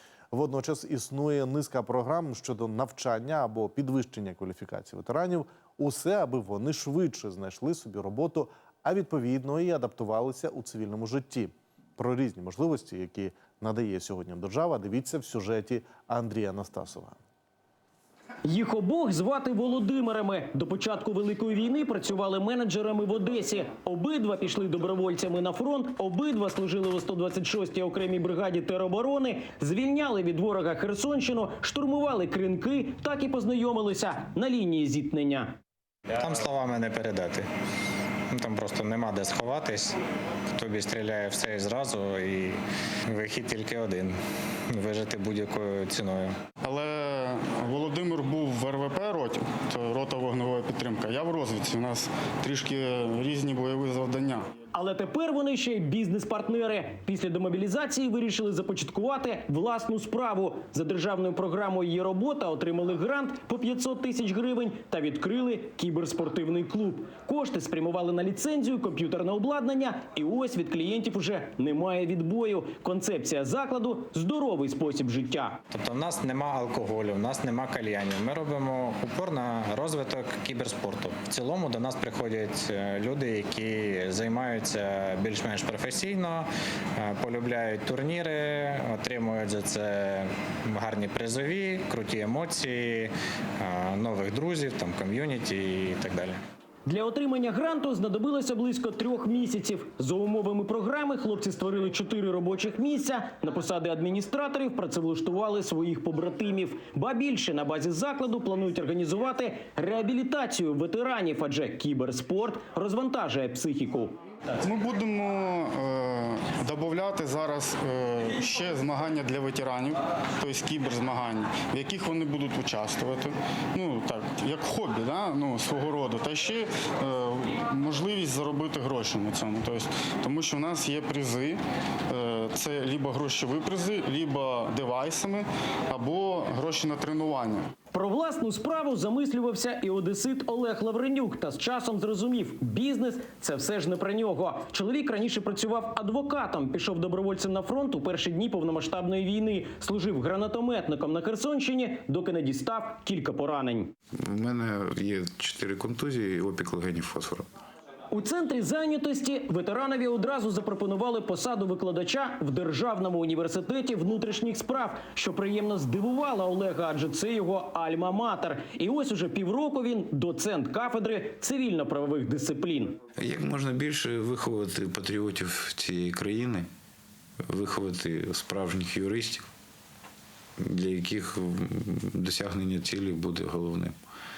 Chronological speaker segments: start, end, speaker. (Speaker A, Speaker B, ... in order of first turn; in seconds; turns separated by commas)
Speaker A: 0.3-17.2, Speaker B: 18.4-35.5, Speaker C: 36.1-37.5, Speaker C: 38.3-40.0, Speaker C: 40.6-42.6, Speaker C: 43.1-44.1, Speaker C: 44.7-46.3, Speaker D: 46.6-54.5, Speaker B: 54.7-75.6, Speaker C: 75.7-86.5, Speaker C: 87.0-96.4, Speaker B: 96.9-114.2, Speaker D: 114.6-137.7, Speaker B: 137.9-153.9, Speaker E: 154.2-157.5, Speaker B: 158.1-173.0, Speaker E: 173.2-176.7, Speaker E: 177.5-179.5, Speaker E: 180.6-184.0